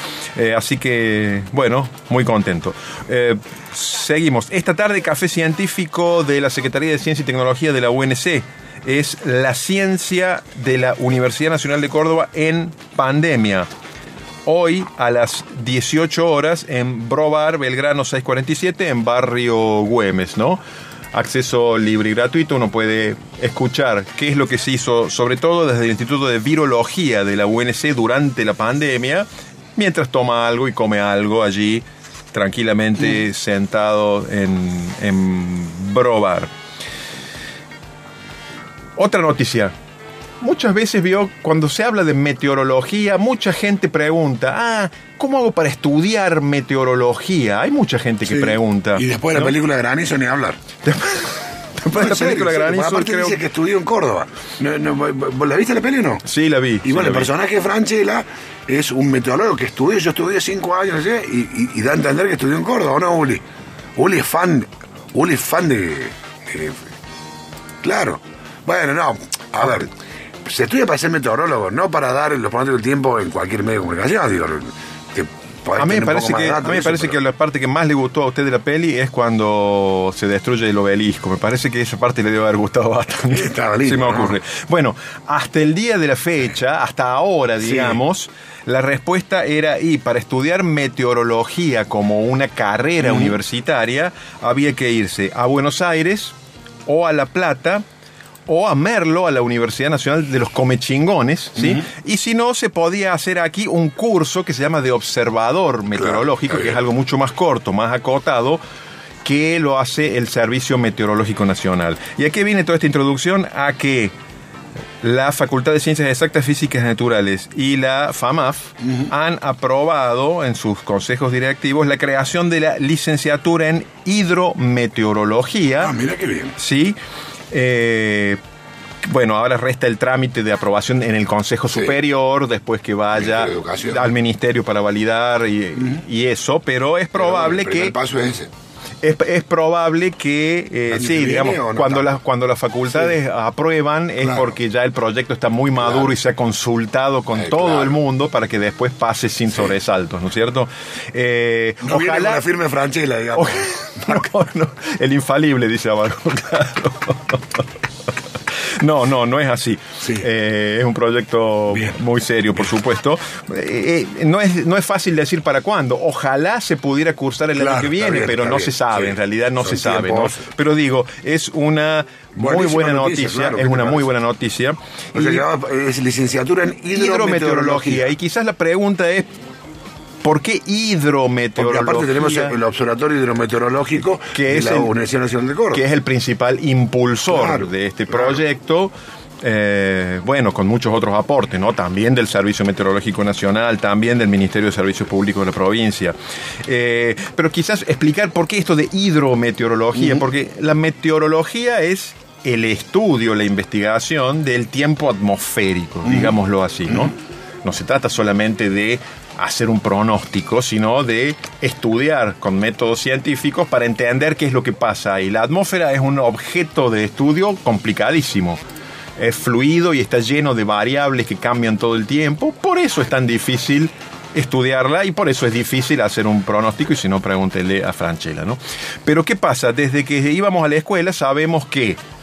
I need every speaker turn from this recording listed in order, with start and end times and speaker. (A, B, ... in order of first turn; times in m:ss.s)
0:00.4-0:13.7 A
0:14.5-0:20.6 A
0:21.1-0:36.5 A
0:39.0-0:39.8 A
0:40.4-0:49.6 A
0:48.3-0:50.6 B
0:50.8-0:53.4 A
0:51.9-0:56.2 B
0:56.2-0:57.3 A
0:56.8-1:03.4 B
1:04.0-1:06.9 B
1:07.8-1:09.9 B
1:10.4-1:17.2 B
1:15.8-1:36.3 A
1:23.3-1:24.3 B
1:27.6-1:28.0 B
1:33.0-1:33.3 B
1:36.9-1:37.8 A
1:38.5-1:48.6 A
1:41.6-1:41.8 B
1:46.0-1:46.7 B
1:49.2-1:54.1 A
1:55.0-2:06.0 A
1:58.8-1:59.1 B
2:05.8-2:06.5 B
2:06.6-2:07.0 A
2:07.5-2:08.4 A
2:09.0-2:18.0 A
2:13.1-2:14.1 B
2:17.2-2:18.5 B
2:19.0-2:32.4 A
2:20.9-2:22.1 B
2:24.2-2:24.5 B
2:25.8-2:26.1 B
2:27.4-2:27.9 B
2:31.8-2:34.3 B
2:33.4-2:37.6 A
2:38.7-2:55.5 A
2:41.7-2:42.0 B
2:47.6-2:50.5 B
2:52.4-2:54.1 B
2:55.2-2:58.1 B
2:56.9-2:59.3 A
3:00.2-3:02.6 A
3:01.6-3:05.8 B
3:04.3-3:04.9 A
3:05.7-3:38.6 A
3:07.3-3:08.4 B
3:26.1-3:26.3 B
3:39.2-3:52.0 A